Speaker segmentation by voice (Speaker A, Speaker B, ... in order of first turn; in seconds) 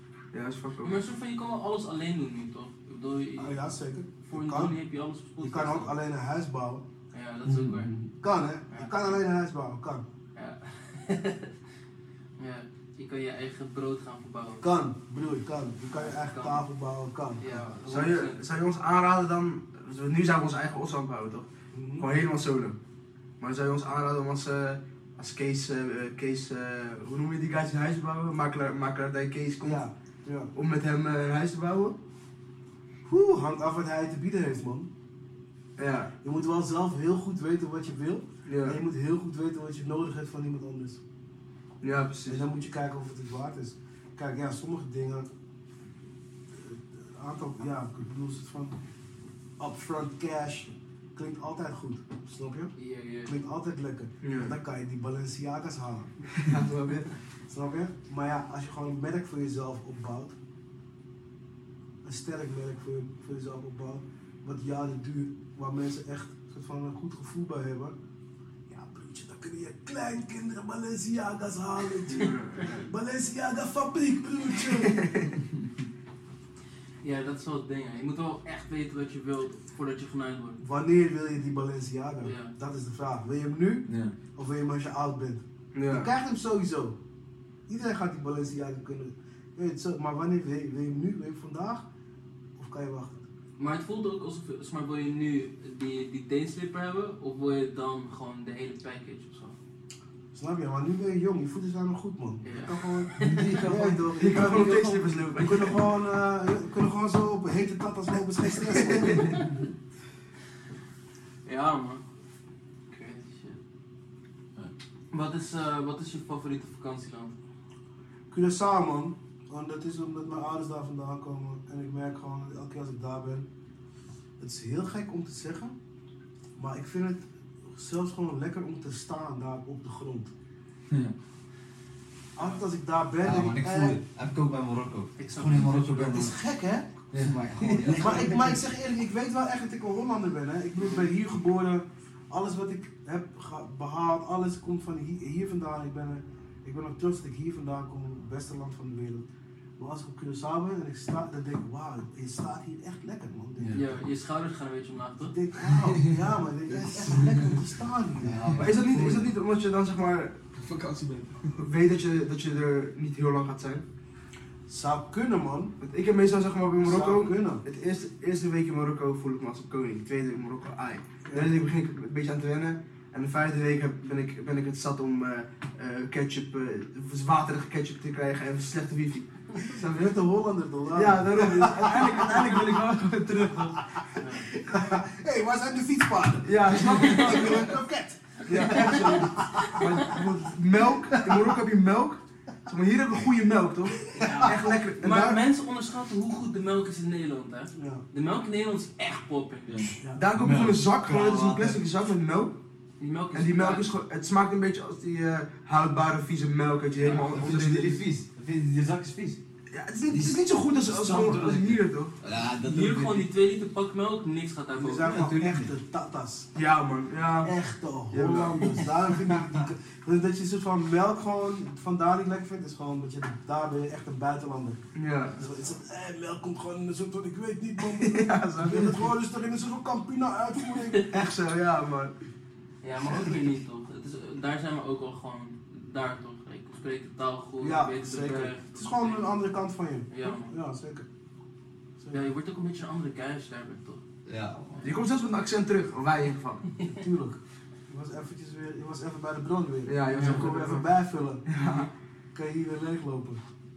Speaker A: 0.3-1.0, 17.9-22.8, 23.4-29.8, 30.5-32.0, 35.8-36.1, 38.5-38.8, 41.8-42.5, 54.2-54.5, 56.3-57.1, 72.1-72.8, 74.9-75.3, 85.7-86.1, 103.2-105.8, 109.0-109.4, 158.6-160.4, 161.5-163.8, 165.8-180.2, 180.9-183.8, 186.4-187.7, 188.5-195.4, 200.2-202.6, 203.3-208.0, 209.7-212.2, 216.6-217.5, 218.1-218.6, 224.9-225.4, 228.0-229.1, 231.1-232.1, 244.8-246.7, 249.9-250.8, 251.5-251.9
Speaker B: 0.8-3.6, 4.3-6.0, 7.1-7.9, 8.7-9.2, 10.4-11.6, 12.4-14.8, 15.9-16.6, 17.4-18.4, 52.8-53.4, 77.0-80.6, 82.2-82.5, 93.6-99.5, 102.4-103.8, 109.2-109.5, 111.5-112.0, 112.9-113.6, 115.1-117.3, 135.2-136.2, 153.7-155.3, 184.2-184.5, 186.9-187.3, 188.5-189.8, 194.2-199.9, 203.0-203.9, 212.6-215.2, 232.8-239.3, 240.1-240.5, 242.1-244.0, 250.1-250.4, 251.6-251.9
Speaker C: 3.4-4.8, 5.4-6.9, 7.7-10.1, 14.6-17.7, 21.7-22.1, 29.6-30.5, 33.1-34.9, 36.2-41.0, 42.3-45.3, 46.5-48.8, 49.6-56.3, 57.5-60.4, 62.0-68.0, 68.7-75.0, 80.6-87.0, 87.7-91.9, 92.6-93.2, 100.3-109.3, 118.3-123.5, 124.4-125.8, 126.6-130.3, 132.4-134.0, 136.0-137.0, 137.8-154.0, 155.2-159.2, 164.7-165.7, 166.8-167.6, 171.3-171.7, 179.7-182.8, 184.5-190.2, 191.1-191.6, 194.2-194.9, 197.8-198.0, 214.8-216.5, 217.4-224.8, 225.3-231.4, 237.6-241.1, 246.9-251.5, 252.3-253.4
Speaker D: 7.5-7.8, 83.9-84.1, 103.2-103.6, 137.1-137.4, 155.8-156.1, 157.1-157.4, 160.6-161.5, 199.7-199.9
Speaker E: 133.2-136.4, 137.2-138.6, 158.2-159.2, 200.4-201.8, 207.0-209.4, 210.1-213.3, 215.0-215.7, 244.3-244.9